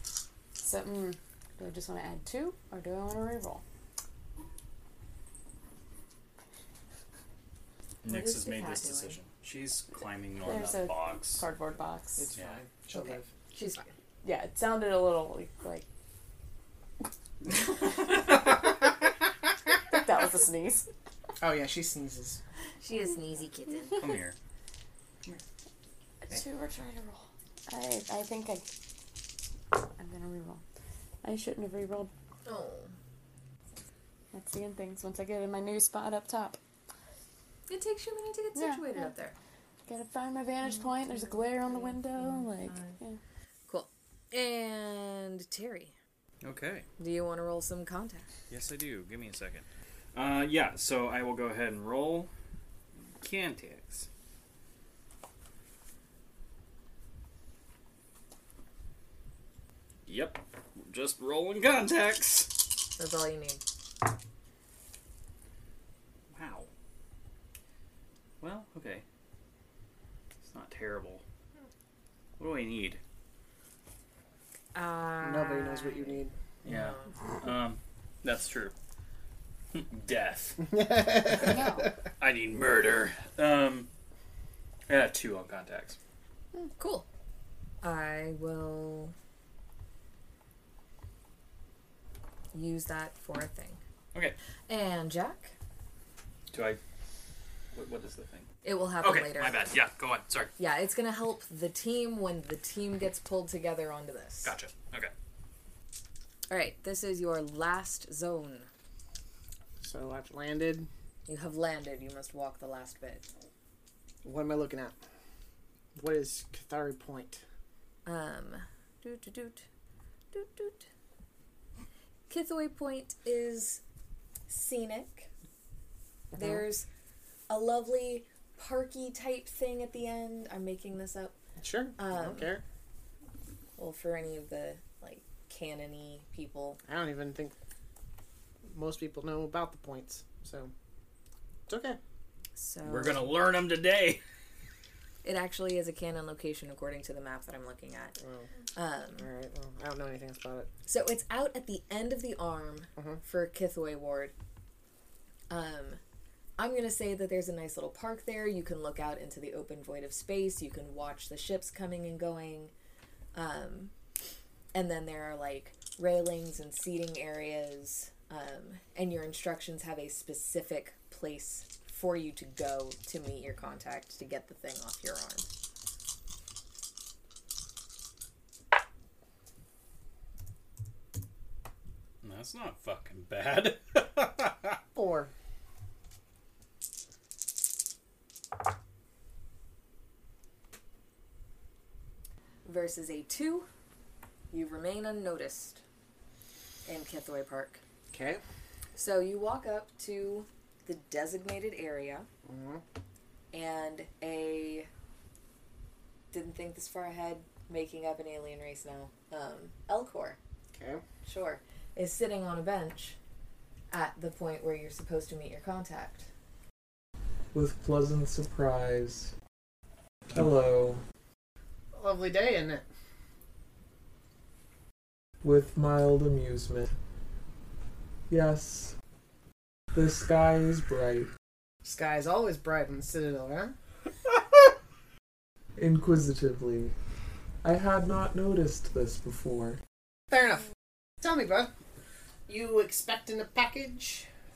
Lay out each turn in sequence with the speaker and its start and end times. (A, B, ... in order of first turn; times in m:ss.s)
0:00.6-0:03.6 A
0:08.0-0:11.4 B
0:08.1-0:09.2 C
0:10.4-0:12.3 A
0:12.2-0:13.3 D
0:12.9-0:13.8 C
0:14.2-0:15.9 A
0:19.9-0:20.9 A
0:21.4-0:22.4 D
0:22.8-0:24.1 C
0:24.0-0:24.4 B
0:26.2-0:28.7 A
0:29.7-0:30.6 A
0:31.2-0:32.1 A
0:32.4-0:32.9 C
0:34.3-0:36.6 A
0:37.7-0:39.4 C
0:38.6-0:39.1 A
0:39.9-0:43.2 A
0:41.2-0:43.0 C
0:43.7-0:46.0 C
0:46.4-0:46.9 B
0:47.0-0:48.3 C
0:48.5-0:52.3 B
0:53.2-0:54.1 B
1:00.1-1:02.6 B
1:03.0-1:03.6 C
1:06.3-1:06.7 B
1:08.4-1:09.0 B
1:10.4-1:11.2 B
1:12.4-1:13.0 B
1:14.7-1:17.1 C
1:15.2-1:16.3 D
1:16.6-1:18.7 B
1:19.7-1:20.7 B
1:20.6-1:21.9 D
1:21.4-1:21.9 A
1:22.2-1:23.9 B
1:24.9-1:26.0 B
1:26.7-1:27.1 C
1:27.8-1:29.1 C
1:32.5-1:33.8 C
1:34.7-1:35.5 C
1:36.5-1:36.8 B
1:37.7-1:38.5 B
1:38.6-1:39.7 C
1:39.0-1:40.5 B
1:40.6-1:44.5 C
1:44.4-1:45.1 B
1:46.5-1:48.7 C
1:49.8-1:50.9 D
1:51.3-1:53.2 C
1:54.2-1:55.0 D
1:56.0-1:57.4 D
1:58.1-1:59.6 C
2:00.3-2:00.9 C
2:02.3-2:03.8 C
2:04.5-2:05.3 C
2:06.3-2:06.6 D
2:06.4-2:06.9 C
2:07.5-2:11.4 C
2:11.6-2:12.6 D
2:12.0-2:12.5 C
2:13.8-2:16.8 C
2:16.8-2:17.6 D
2:18.7-2:20.7 D
2:21.7-2:22.0 D
2:22.6-2:23.3 C
2:22.8-2:24.2 B
2:25.2-2:28.2 C
2:28.2-2:28.5 D
2:28.8-2:29.3 C
2:29.2-2:30.7 D
2:30.9-2:34.3 C
2:35.5-2:36.0 C
2:36.6-2:42.7 C
2:43.3-2:43.9 C
2:44.7-2:55.5 C
3:02.2-3:04.8 B
3:05.0-3:05.3 D
3:12.6-3:13.7 C
3:14.5-3:15.8 C
3:16.8-3:17.8 C
3:18.1-3:18.4 D
3:19.0-3:22.3 C
3:22.4-3:22.8 D
3:23.5-3:24.9 C
3:26.3-3:30.4 C
3:30.7-3:31.0 D
3:31.2-3:33.2 C
3:33.9-3:36.3 C
3:37.5-3:39.3 E
3:40.3-3:41.0 E
3:41.9-3:42.8 D
3:45.4-3:46.9 E
3:48.3-3:48.9 E
3:49.9-3:51.3 E
3:51.8-3:53.7 D
3:55.8-3:56.9 E
3:57.6-3:59.8 E
4:00.3-4:00.6 D
4:01.2-4:01.7 D
4:02.5-4:04.3 D